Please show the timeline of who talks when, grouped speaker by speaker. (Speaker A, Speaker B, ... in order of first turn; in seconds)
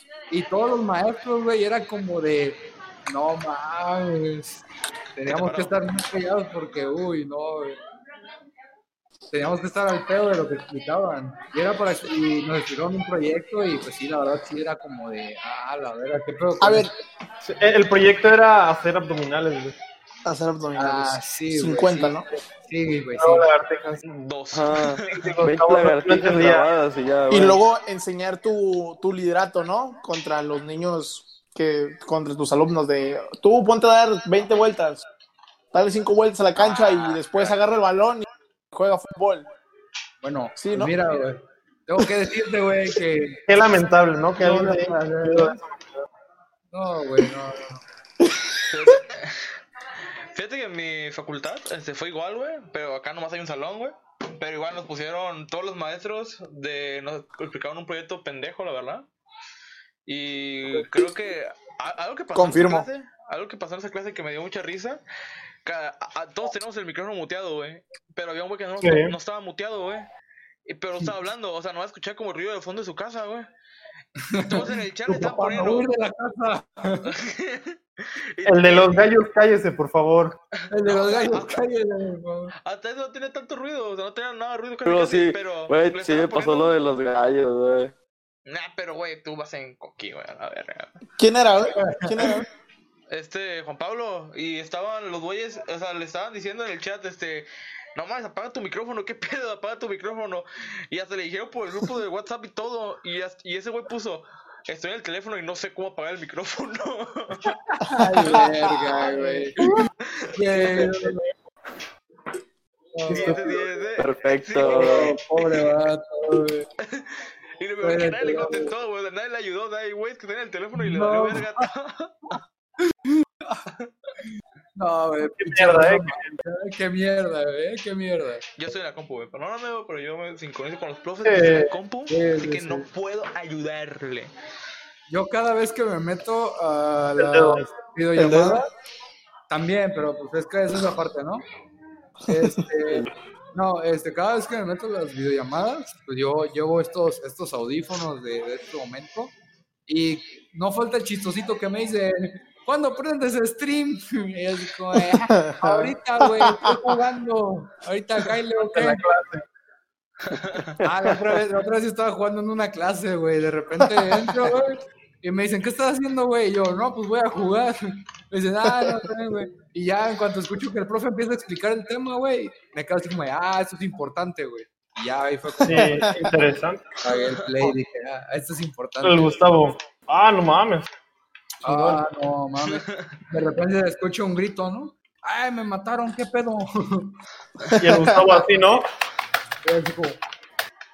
Speaker A: 0.3-4.6, 5.1-7.8, 9.3-16.9, 20.8-23.5, 40.2-43.5, 44.4-45.6, 46.7-47.8, 74.3-77.1, 80.7-82.5, 91.8-92.1, 107.4-109.8, 110.3-111.2, 112.9-113.5, 114.6-116.7, 117.8-118.7, 120.8-121.7, 122.9-123.6, 124.8-128.4, 132.1-132.9, 135.1-138.7, 139.5-141.4, 142.3-149.3, 149.9-159.0, 160.8-176.1, 177.0-179.4, 181.6-187.1, 188.1-188.6, 189.6-190.2
Speaker B: 5.3-5.7, 24.0-25.3, 36.7-37.5, 48.7-49.5, 50.3-59.0, 60.0-65.0, 65.6-70.1, 70.7-73.5, 74.5-75.9, 77.0-79.1, 80.8-81.6, 82.6-86.7, 88.5-91.0, 93.1-107.5, 113.1-115.2, 116.8-122.1, 128.6-134.3, 160.2-160.8, 182.7-183.1
Speaker C: 16.6-16.9, 20.2-22.2, 27.3-35.0, 35.7-39.5, 40.6-40.9, 62.3-62.9, 91.2-92.4, 107.9-109.0, 138.2-138.6, 154.9-156.8, 163.8-164.4, 175.6-176.3, 187.8-188.2
Speaker D: 17.4-19.7, 23.2-24.0, 25.1-26.7, 43.5-46.0, 68.8-69.1, 78.4-80.4, 110.5-111.2, 113.1-113.4, 125.4-126.4, 131.2-131.7, 137.2-137.7, 158.7-159.4, 175.6-176.9, 179.0-180.9, 181.6-182.0, 187.8-188.9
Speaker E: 24.5-27.6, 84.8-87.9, 114.0-115.2, 160.8-161.1